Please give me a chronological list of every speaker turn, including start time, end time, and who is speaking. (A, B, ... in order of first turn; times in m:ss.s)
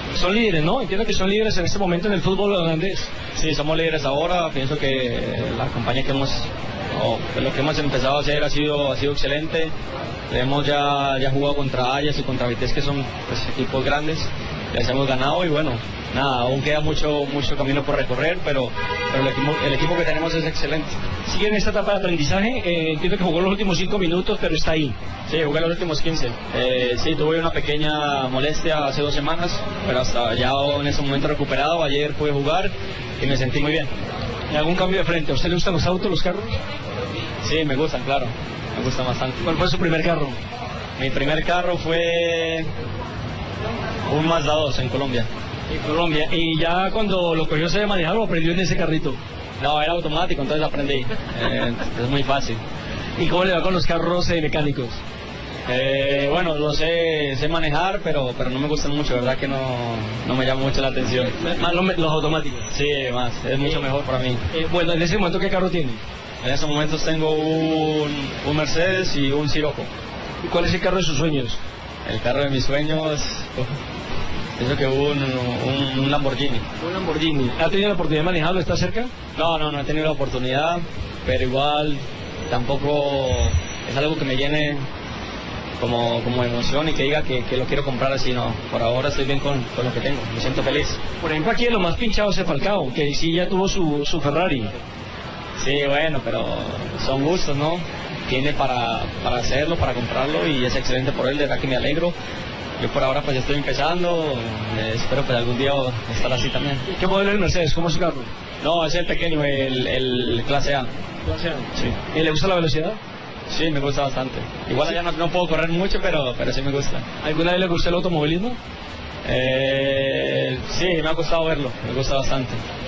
0:00.1-0:03.1 A
0:03.3-0:09.7 B
0:10.3-0:21.0 B
0:21.2-0:24.9 A
0:25.3-0:33.9 B
0:34.5-0:36.6 A
0:37.4-0:39.5 B
0:39.4-0:40.4 A
0:41.0-0:42.7 B
0:44.1-0:45.3 B
0:45.7-0:49.2 A
0:49.6-0:52.6 B
0:53.2-0:55.0 A
0:55.7-1:01.4 B
1:01.4-1:02.7 A
1:02.7-1:04.4 B
1:04.5-1:06.0 A
1:06.4-1:09.9 B
1:10.4-1:11.6 A
1:12.0-1:13.7 B
1:14.6-1:17.2 B
1:17.2-1:19.1 A
1:19.3-1:24.8 B
1:25.8-1:31.0 B
1:31.2-1:34.7 A
1:35.6-1:42.1 B
1:42.8-1:46.8 B
1:46.9-1:48.3 A
1:48.6-1:50.9 B
1:51.2-1:53.0 A
1:53.5-1:57.0 B
1:57.2-1:58.6 A
1:59.2-2:02.6 B